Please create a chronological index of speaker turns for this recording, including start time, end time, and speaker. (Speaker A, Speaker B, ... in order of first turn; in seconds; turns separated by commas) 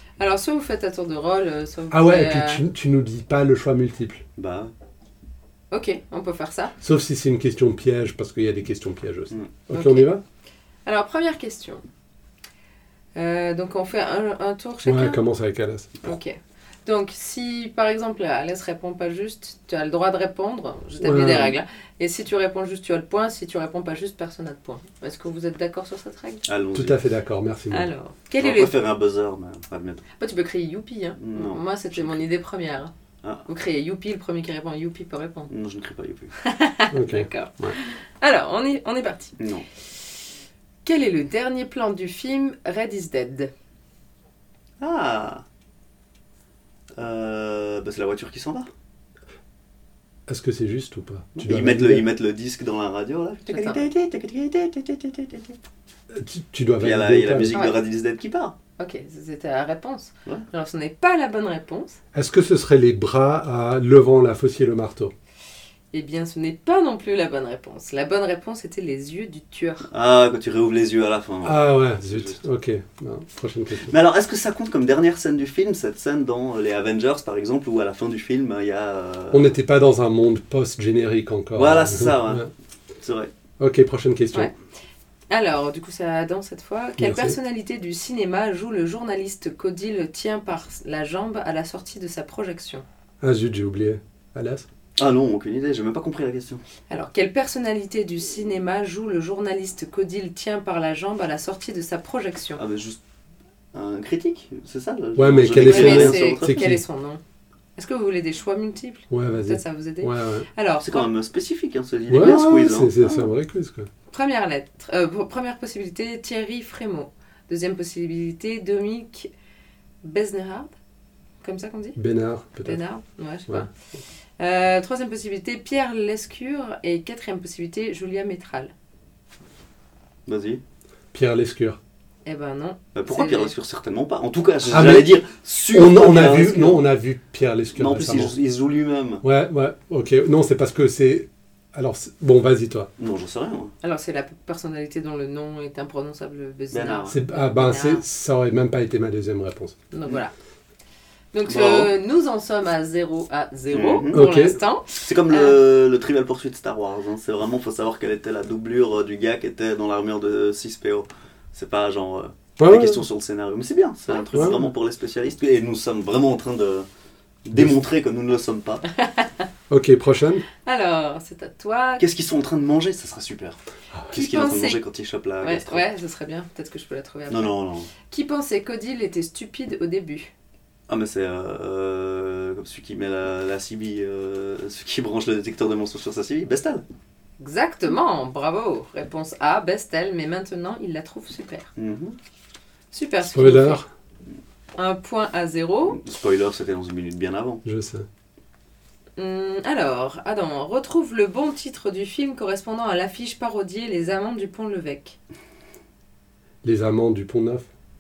Speaker A: 0.2-2.6, Speaker B: 1.9-4.2, Speaker C: 4.4-4.7, Speaker A: 5.7-6.7, Speaker B: 6.8-10.2, Speaker A: 9.7-10.1, Speaker A: 10.9-11.8, Speaker A: 13.2-15.2, Speaker B: 14.8-16.1, Speaker A: 16.0-26.4, Speaker B: 21.0-21.6, Speaker C: 26.4-27.0, Speaker B: 26.7-27.9, Speaker A: 27.7-28.8, Speaker C: 28.4-30.1, Speaker A: 30.2-32.9, Speaker C: 31.2-32.2, Speaker A: 33.5-35.5, Speaker C: 35.5-36.3, Speaker A: 36.4-39.4, Speaker B: 36.9-37.8, Speaker C: 39.4-39.7, Speaker A: 40.9-43.5, Speaker C: 44.8-45.4, Speaker C: 47.0-48.7, Speaker B: 50.3-52.1, Speaker C: 51.4-55.6, Speaker A: 53.5-53.9, Speaker B: 56.1-57.6, Speaker C: 56.8-58.5, Speaker A: 57.5-57.8, Speaker A: 58.8-62.0, Speaker B: 62.1-65.1, Speaker A: 65.9-69.9, Speaker C: 69.9-72.4, Speaker B: 71.4-73.9, Speaker C: 73.9-79.5, Speaker B: 79.3-82.5, Speaker C: 81.5-82.5, Speaker C: 83.0-83.3, Speaker B: 83.6-84.5, Speaker A: 85.3-92.8, Speaker B: 87.0-87.4, Speaker B: 93.2-94.7, Speaker C: 95.0-96.6, Speaker A: 96.9-102.6, Speaker C: 102.6-103.0, Speaker C: 103.7-106.8, Speaker B: 105.2-106.8, Speaker A: 105.6-107.2, Speaker A: 107.8-111.1, Speaker B: 109.1-110.5, Speaker C: 110.8-113.3, Speaker B: 112.1-113.9, Speaker A: 114.1-119.3, Speaker A: 120.0-120.7, Speaker A: 121.4-122.0, Speaker B: 122.0-122.8, Speaker A: 122.6-123.7, Speaker A: 124.4-128.7, Speaker C: 130.3-130.6, Speaker B: 131.1-131.8, Speaker A: 132.2-133.5, Speaker C: 132.9-136.9, Speaker B: 134.7-138.3, Speaker C: 137.8-139.2, Speaker B: 139.2-142.9, Speaker C: 143.0-143.7, Speaker A: 143.8-148.1, Speaker C: 146.7-147.2, Speaker B: 147.1-149.8, Speaker A: 149.9-150.3, Speaker A: 151.3-155.6, Speaker C: 151.5-151.9, Speaker C: 153.7-154.3, Speaker B: 154.1-154.6, Speaker C: 154.9-166.9, Speaker B: 162.6-163.0, Speaker B: 164.3-164.7, Speaker C: 167.4-168.8, Speaker A: 169.0-169.3, Speaker B: 169.7-170.4, Speaker A: 170.6-172.1, Speaker C: 172.0-173.6, Speaker C: 174.1-175.9, Speaker A: 174.1-174.8, Speaker A: 175.4-180.3, Speaker C: 177.3-177.9, Speaker C: 180.9-186.8, Speaker A: 187.4-191.7, Speaker C: 191.8-192.2, Speaker A: 192.9-193.8, Speaker B: 193.3-193.9, Speaker A: 194.8-196.0, Speaker C: 195.9-197.6, Speaker B: 197.7-198.1, Speaker A: 199.2-205.2, Speaker B: 206.6-207.7